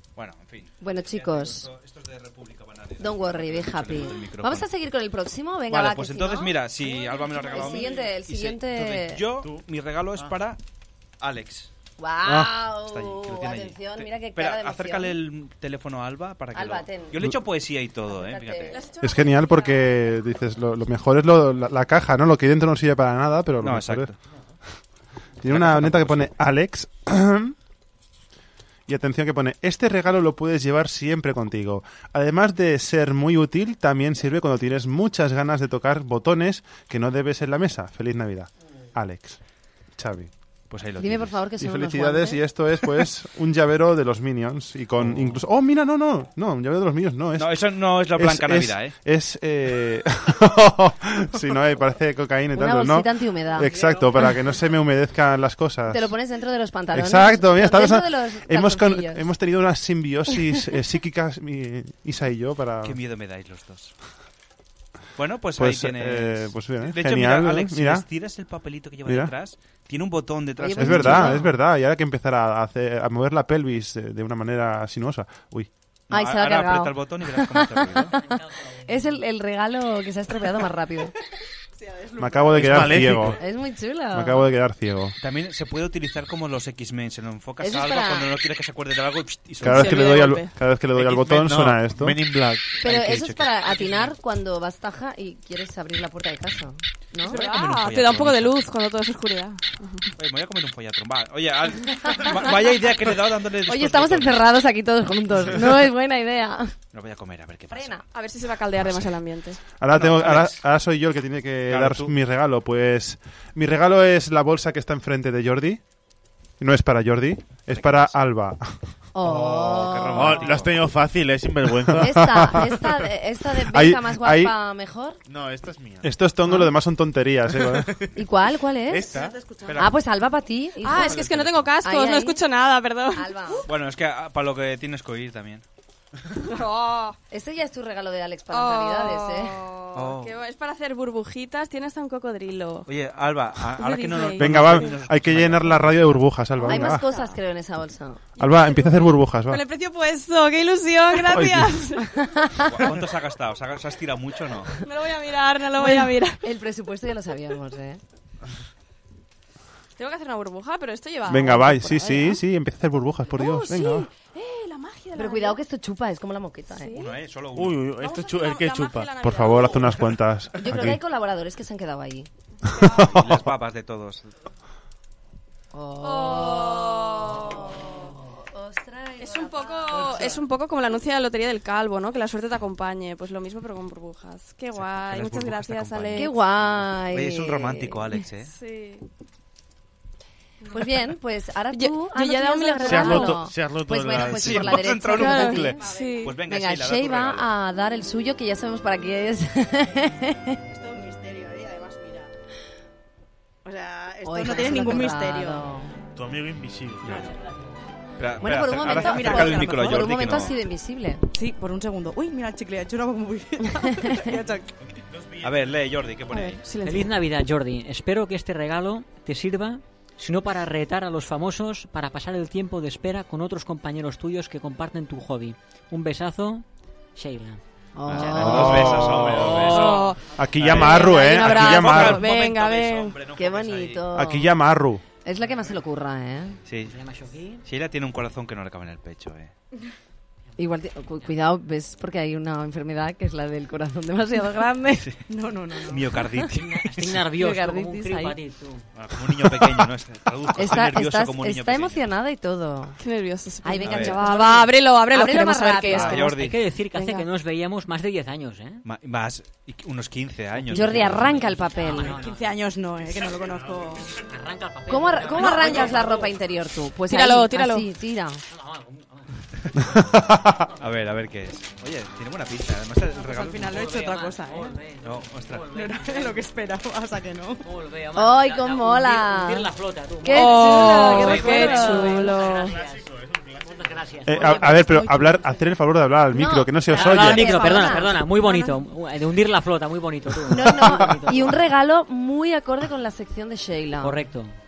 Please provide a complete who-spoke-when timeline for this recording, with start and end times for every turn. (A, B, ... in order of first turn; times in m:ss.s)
0:00.2-0:04.7 A
0:00.8-0:01.7 B
0:03.0-0:06.6 B
0:05.7-0:10.6 A
0:07.3-0:07.9 C
0:07.5-0:09.2 B
0:09.4-0:09.6 D
0:11.2-0:11.7 A
0:12.0-0:15.2 B
0:12.7-0:18.8 A
0:16.5-0:17.2 B
0:18.1-0:18.8 B
0:18.7-0:20.2 C
0:19.0-0:24.1 E
0:23.6-0:24.2 A
0:25.4-0:27.5 E
0:25.4-0:26.3 A
0:28.9-0:39.4 E
0:40.0-0:40.3 E
0:40.7-0:41.4 A
0:41.0-0:42.4 B
0:41.6-0:47.5 E
0:45.0-0:45.4 A
0:47.4-0:48.9 A
0:48.2-0:56.1 E
0:52.5-0:54.0 B
0:55.9-0:59.2 B
0:56.9-1:03.0 E
1:02.8-1:03.9 A
1:05.2-1:11.4 A
1:05.6-1:08.0 E
1:09.1-1:09.3 E
1:10.6-1:11.5 B
1:10.8-1:15.7 E
1:16.1-1:18.1 A
1:16.1-1:18.2 B
1:18.8-1:21.1 B
1:21.7-1:22.8 F
1:22.2-1:23.4 E
1:22.5-1:23.4 D
1:23.4-1:24.5 B
1:24.1-1:25.2 E
1:25.2-1:30.3 A
1:27.6-1:28.3 B
1:29.6-1:32.2 E
1:29.7-1:30.5 C
1:31.0-1:32.8 D
1:32.8-1:37.5 B
1:32.8-1:34.1 A
1:37.2-1:40.1 C
1:37.2-1:38.6 A
1:40.2-1:44.5 A
1:43.7-1:46.7 B
1:46.9-1:48.0 A
1:47.7-1:48.0 B
1:48.1-1:49.6 C
1:49.8-1:55.8 E
1:49.9-1:50.6 A
1:51.7-1:52.1 A
1:56.6-1:58.6 E
1:57.7-1:58.2 A
1:59.2-2:00.5 B
1:59.2-2:02.5 D
1:59.5-2:00.8 A
2:02.0-2:05.2 B
2:02.1-2:02.7 E
2:03.6-2:04.5 E
2:05.3-2:06.6 D
2:06.0-2:07.9 E
2:07.5-2:08.2 D
2:08.2-2:09.1 B
2:08.9-2:09.4 D
2:09.0-2:09.9 F
2:09.6-2:09.9 A
2:09.8-2:11.2 B
2:10.8-2:13.7 C
2:10.9-2:11.8 D
2:11.8-2:12.4 B
2:13.1-2:13.7 B
2:13.7-2:15.6 A
2:16.4-2:17.2 C
2:17.3-2:19.6 B
2:18.5-2:22.9 C
2:20.0-2:20.4 A
2:22.9-2:26.1 A
2:23.8-2:24.9 C
2:24.4-2:27.1 E
2:26.6-2:27.4 C
2:26.6-2:28.2 B
2:28.4-2:32.1 C
2:28.4-2:29.6 E
2:31.3-2:31.8 E
2:32.1-2:32.8 B
2:32.7-2:34.8 A
2:34.8-2:36.4 C
2:35.8-2:38.0 B
2:40.0-2:42.4 C
2:41.3-2:44.1 E
2:43.3-2:45.6 C
2:45.2-2:47.0 B
2:46.8-2:47.1 C
2:46.9-2:47.9 A
2:47.5-2:49.2 D
2:48.0-2:50.0 C
2:49.2-2:51.0 E
2:50.6-2:52.3 B
2:52.8-2:53.4 E
2:52.9-2:54.3 A
2:55.7-3:00.5 B
2:56.0-2:58.2 C
2:59.2-3:06.3 C
3:04.7-3:08.5 A
3:06.2-3:08.1 B
3:08.4-3:09.0 C
3:10.6-3:11.0 C
3:10.7-3:20.6 B
3:11.7-3:13.3 C
3:12.8-3:15.0 D
3:14.1-3:17.5 A
3:15.1-3:16.3 C
3:15.8-3:16.2 F
3:20.7-3:22.3 F
3:23.6-3:25.7 F
3:24.2-3:25.9 B
3:26.2-3:27.3 D
3:27.0-3:27.4 A
3:27.1-3:27.4 F
3:28.2-3:30.5 A
3:28.4-3:31.2 B
3:28.8-3:30.1 F
3:31.3-3:34.7 F
3:35.1-3:35.7 D
3:35.4-3:36.6 A
3:36.3-3:37.1 C
3:36.8-3:46.6 G
3:47.2-3:47.6 G
3:48.0-3:49.0 B
3:48.1-3:54.1 A
3:48.2-3:49.8 G
3:48.4-3:49.3 E
3:49.2-3:49.6 D
3:49.5-3:50.2 C
3:50.4-3:52.3 E
3:50.8-3:53.2 C
3:53.4-3:54.5 B
3:54.1-3:55.0 E
3:55.2-3:56.6 B
3:56.7-3:57.0 A
3:56.8-3:57.6 G
3:57.6-3:59.5 A
4:00.6-4:05.1 B
4:05.3-4:06.2 F
4:05.9-4:07.2 A
4:06.5-4:08.9 G
4:07.4-4:08.4 B
4:09.0-4:12.0 A
4:10.6-4:13.0 B
4:13.0-4:16.3 C
4:13.6-4:16.2 B
4:13.8-4:14.2 A
4:15.9-4:16.6 A
4:16.1-4:18.8 G
4:16.9-4:17.3 C
4:18.8-4:21.5 A
4:20.6-4:22.4 G
4:20.7-4:22.2 B
4:21.9-4:24.2 F
4:24.2-4:26.2 G
4:24.9-4:28.4 B
4:25.4-4:26.3 F
4:27.1-4:27.9 C
4:28.5-4:29.3 G
4:30.1-4:30.4 E
4:30.8-4:33.9 A
4:33.2-4:34.8 F
4:33.7-4:36.4 G
4:35.0-4:35.7 A
4:35.7-4:37.6 F
4:37.6-4:43.0 G
4:38.2-4:39.7 B
4:40.2-4:42.3 B
4:40.3-4:42.8 C
4:42.2-4:44.1 D
4:43.6-4:45.0 G
4:44.3-4:47.6 E
4:44.4-4:45.6 F
4:46.3-4:48.7 B
4:46.9-4:51.6 G
4:50.5-4:54.2 B
4:54.0-4:54.6 G